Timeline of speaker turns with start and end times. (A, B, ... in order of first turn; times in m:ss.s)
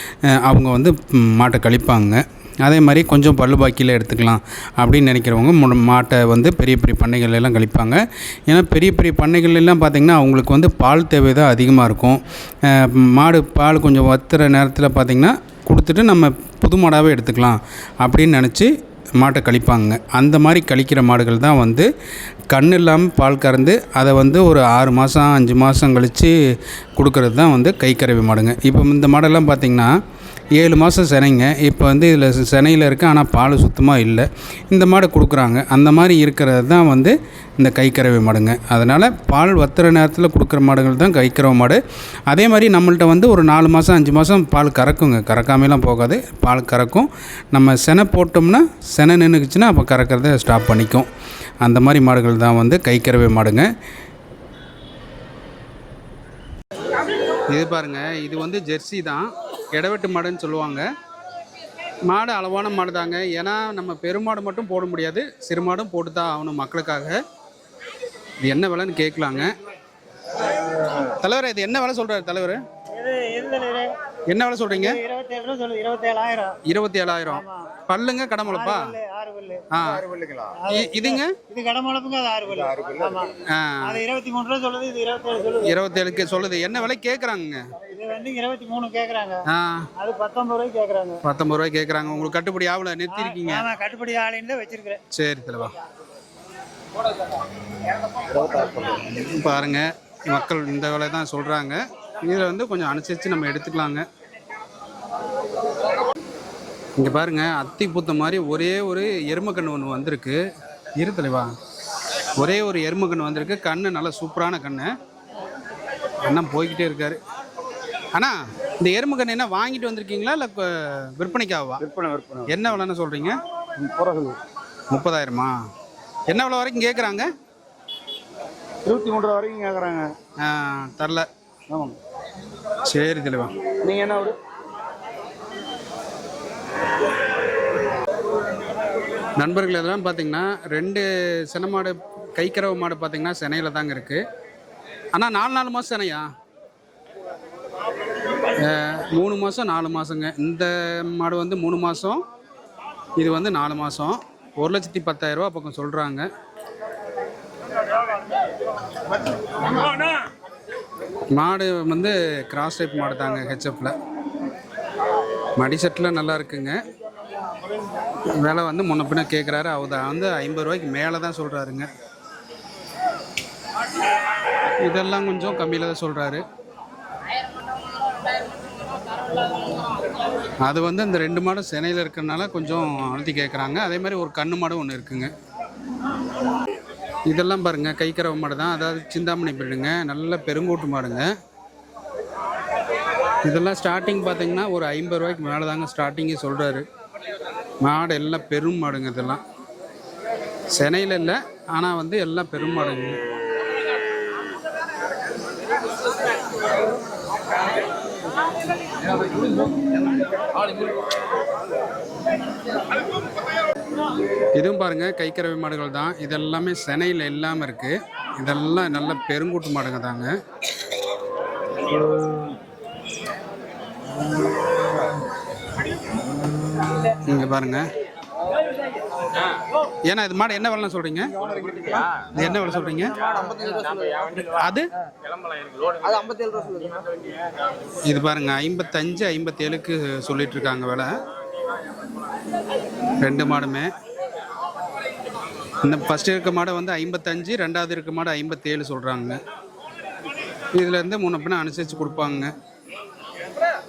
0:00.3-0:21.9 A
0:22.5-0:26.3 A
0:27.0-0:29.9 A
0:30.6-0:51.1 A
0:51.6-0:53.7 A
0:57.5-1:00.8 A
1:02.1-1:07.2 A
1:08.4-1:09.5 A
1:10.8-1:12.6 A
1:12.9-1:13.9 B
1:14.3-1:15.0 A
1:14.7-1:16.6 B
1:16.6-1:18.9 A
1:17.3-1:17.7 B
1:18.5-1:19.6 B
1:19.7-1:20.0 A
1:20.6-1:23.3 B
1:20.7-1:21.4 A
1:23.5-1:24.0 A
1:23.8-1:25.7 B
1:25.6-1:27.6 A
1:27.8-1:29.4 B
1:29.5-1:29.9 A
1:30.0-1:31.2 B
1:31.2-1:33.6 A
1:33.1-1:35.0 B
1:35.1-1:35.7 A
1:39.0-1:44.0 A
1:47.0-1:50.4 A
1:51.0-1:51.5 A
1:52.3-1:54.9 A
1:56.2-1:57.2 A
1:58.1-2:01.8 A
2:01.8-2:02.6 C
2:02.5-2:03.4 A
2:03.8-2:04.4 C
2:04.9-2:05.5 A
2:06.3-2:07.2 A
2:08.8-2:10.1 C
2:10.4-2:11.2 A
2:12.8-2:13.6 A
2:13.8-2:14.3 C
2:19.4-2:24.2 A
2:25.1-2:26.3 A
2:28.6-2:32.2 A
2:33.2-2:36.3 A
2:41.3-2:43.9 A
2:45.6-2:46.8 A
2:48.3-2:51.9 A
2:54.8-2:56.4 A
3:00.6-3:05.3 A
3:07.3-3:11.3 A
3:13.4-3:16.8 A
3:17.8-3:19.4 A
3:20.7-3:23.2 A
3:34.5-3:40.3 A
3:47.0-3:47.8 A
3:50.1-3:51.3 A
3:52.3-3:53.2 A
3:53.5-3:54.3 C
3:54.4-3:54.8 A
3:55.9-3:57.0 C
3:58.0-4:01.1 A
4:03.2-4:03.9 A
4:05.8-4:09.4 A
4:10.7-4:12.5 A